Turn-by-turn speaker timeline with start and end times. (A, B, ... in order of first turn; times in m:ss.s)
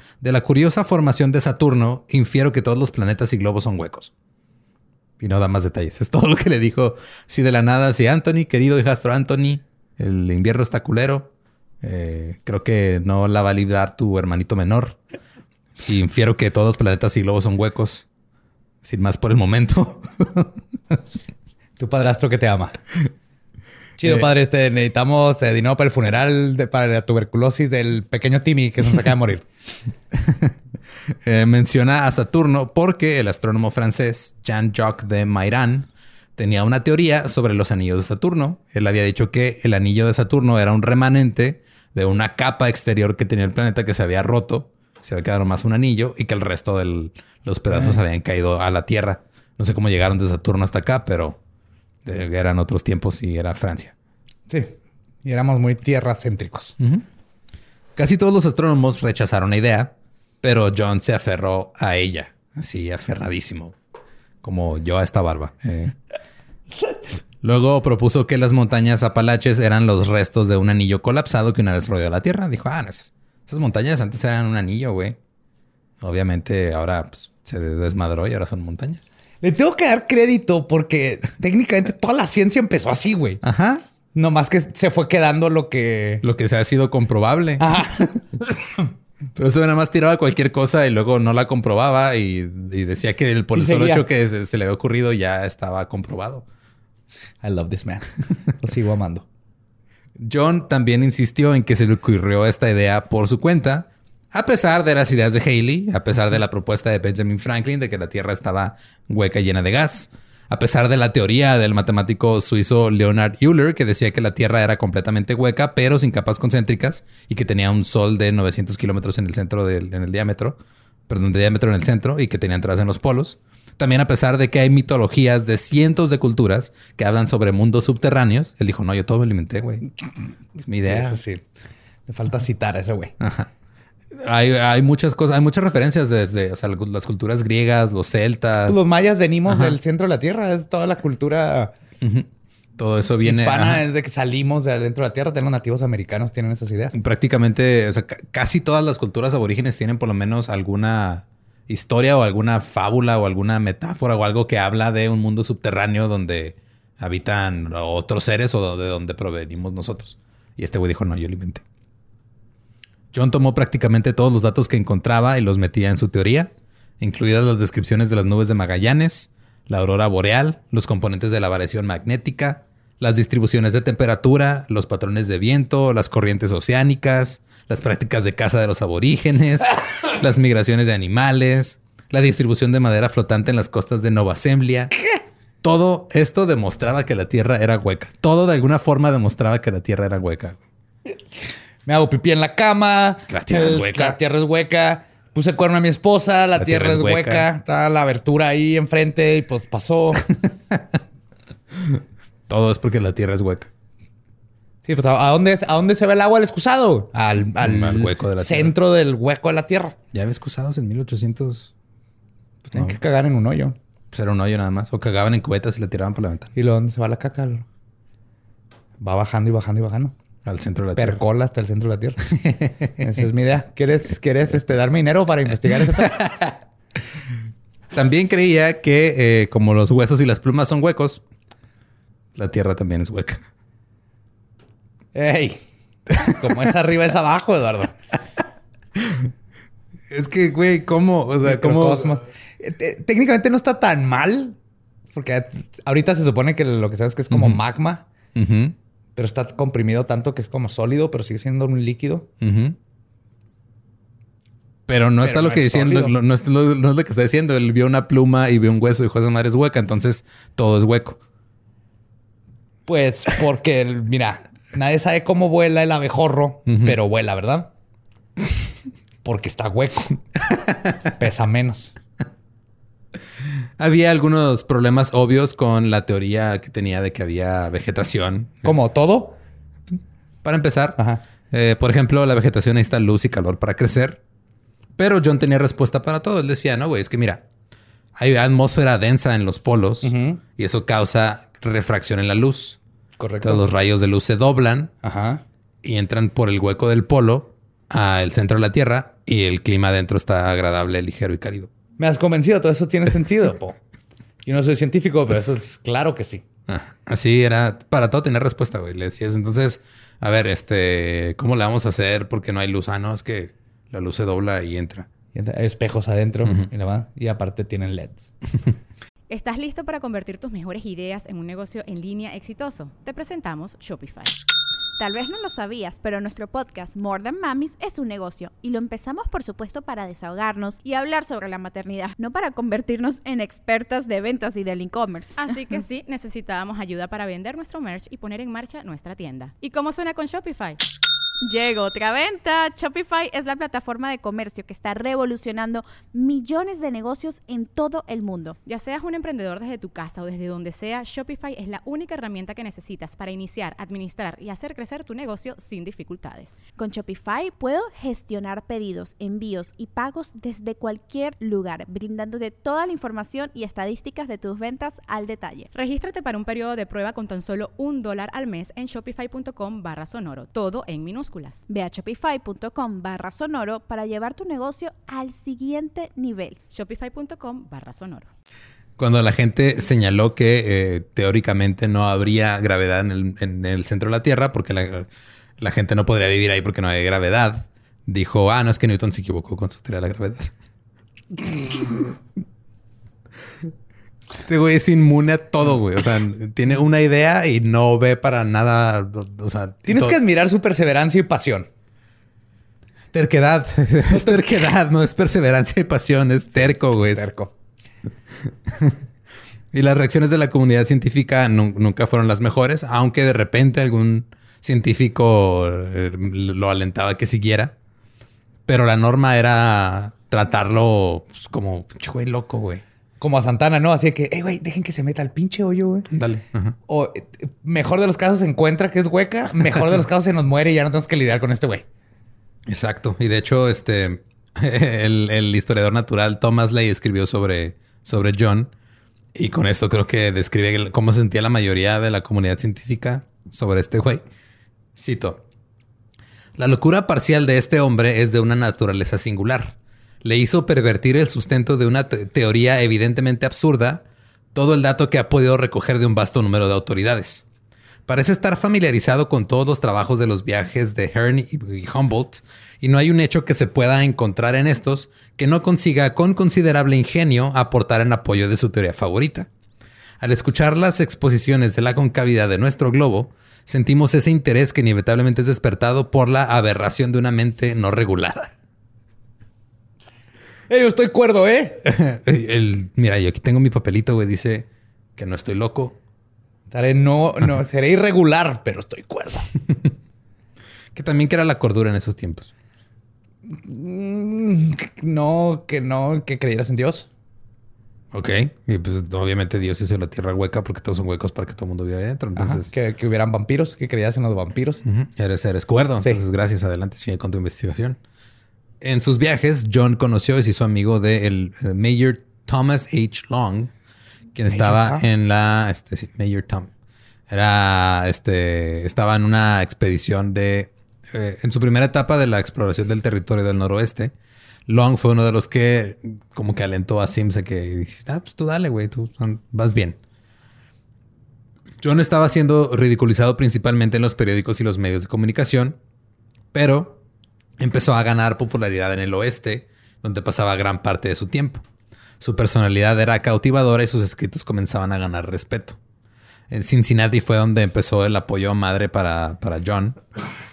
0:00.2-0:04.1 A
0:05.2-0:15.0 A
0:15.8-0:18.0 A
0:18.8-0:21.0 A
0:21.8-0:22.8 B
0:24.0-0:29.4 B
0:24.0-0:24.3 A
0:30.1-0:30.5 A
0:31.2-0:51.4 A
0:47.7-0:48.0 B
0:52.0-0:53.9 A
0:54.5-0:56.8 B
0:56.8-0:57.0 A
0:58.0-1:03.7 A
1:04.4-1:06.0 A
1:07.4-1:15.2 A
1:16.0-1:19.0 A
1:19.4-1:23.4 B
1:23.4-1:23.8 A
1:24.1-1:26.2 B
1:26.2-1:28.1 A
1:27.6-1:28.1 B
1:29.3-1:36.4 A
1:33.5-1:34.0 B
1:37.4-1:39.2 B
1:40.2-2:09.9 A
2:10.6-2:11.2 A
2:10.8-2:11.4 B
2:12.1-2:13.1 B
2:13.2-2:13.5 A
2:14.1-2:18.8 A
2:18.6-2:21.7 B
2:19.4-2:19.8 A
2:22.0-2:23.8 A
2:23.2-2:26.9 B
2:26.9-2:41.6 A
2:43.1-3:04.9 A
3:05.6-3:10.6 A
3:11.8-3:20.2 B
3:13.2-3:14.2 A
3:16.6-3:17.5 A
3:20.7-3:21.0 A
3:21.8-3:23.7 A
3:24.8-3:30.0 B
3:27.6-3:28.7 A
3:30.1-3:31.7 A
3:32.7-3:33.8 B
3:32.7-3:33.0 A
3:34.1-3:36.5 A
3:36.5-3:37.6 B
3:39.0-3:40.1 B
3:40.4-3:41.2 A
3:41.0-3:42.2 B
3:42.3-3:43.2 A
3:43.0-3:46.5 B
3:46.0-3:46.4 A
3:47.9-3:51.2 A
3:52.3-3:53.4 A
3:55.1-3:55.6 B
3:56.1-3:57.9 B
3:59.0-3:59.3 A
4:00.1-4:02.2 A
4:01.4-4:04.6 B
4:05.1-4:08.0 B
4:07.3-4:07.6 A
4:08.3-4:08.8 A
4:09.2-4:12.3 B
4:12.4-4:12.8 A
4:14.9-4:21.2 A
4:15.2-4:16.1 B
4:22.9-4:27.7 B
4:26.7-4:26.9 A
4:29.2-4:30.2 B
4:31.2-4:32.0 B
4:33.8-4:38.8 A
4:38.6-4:39.4 B
4:40.4-4:44.2 A
4:41.0-4:41.2 B
4:45.0-4:47.4 A
4:48.2-4:52.8 A
4:50.0-4:50.4 B
4:53.2-4:53.7 B
4:53.4-4:54.9 A
4:55.0-4:55.4 B
4:55.8-5:01.7 A
5:02.0-5:03.8 B
5:04.4-5:06.4 B
5:06.7-5:15.1 A
5:15.3-5:18.3 B
5:19.3-5:24.3 C
5:25.0-5:35.4 D
5:35.4-5:40.8 C
5:41.4-5:48.6 D
5:48.6-5:56.6 C
5:56.8-6:05.7 D
6:05.7-6:11.6 C
6:11.7-6:16.6 D
6:16.7-6:18.3 C
6:19.0-6:30.5 A
6:34.4-6:40.2 A
6:39.8-6:41.7 B
6:43.1-6:47.2 A
6:44.1-6:44.7 B
6:46.9-6:47.5 B
6:48.7-6:49.0 A
6:49.7-6:57.7 A
6:58.7-7:02.8 A
7:03.2-7:06.1 B
7:06.1-7:06.8 A
7:06.9-7:11.8 B
7:12.6-7:18.7 A
7:19.3-7:24.2 A
7:25.0-7:25.4 A
7:26.6-7:37.4 A
7:38.1-7:49.5 A
7:50.2-7:58.5 A
8:00.7-8:01.8 B
8:01.8-8:06.0 A
8:06.7-8:09.5 B
8:10.9-8:12.5 A
8:13.5-8:17.1 B
8:18.1-8:22.7 A
8:22.4-8:24.8 B
8:24.8-8:28.0 A
8:28.8-8:33.7 A
8:34.3-8:36.7 A
8:34.5-8:35.0 B
8:37.3-8:44.1 A
8:44.7-8:50.0 A
8:51.8-8:55.8 A
8:56.5-8:57.0 A
8:57.6-9:01.6 A
9:02.2-9:05.8 A
9:06.5-9:10.0 A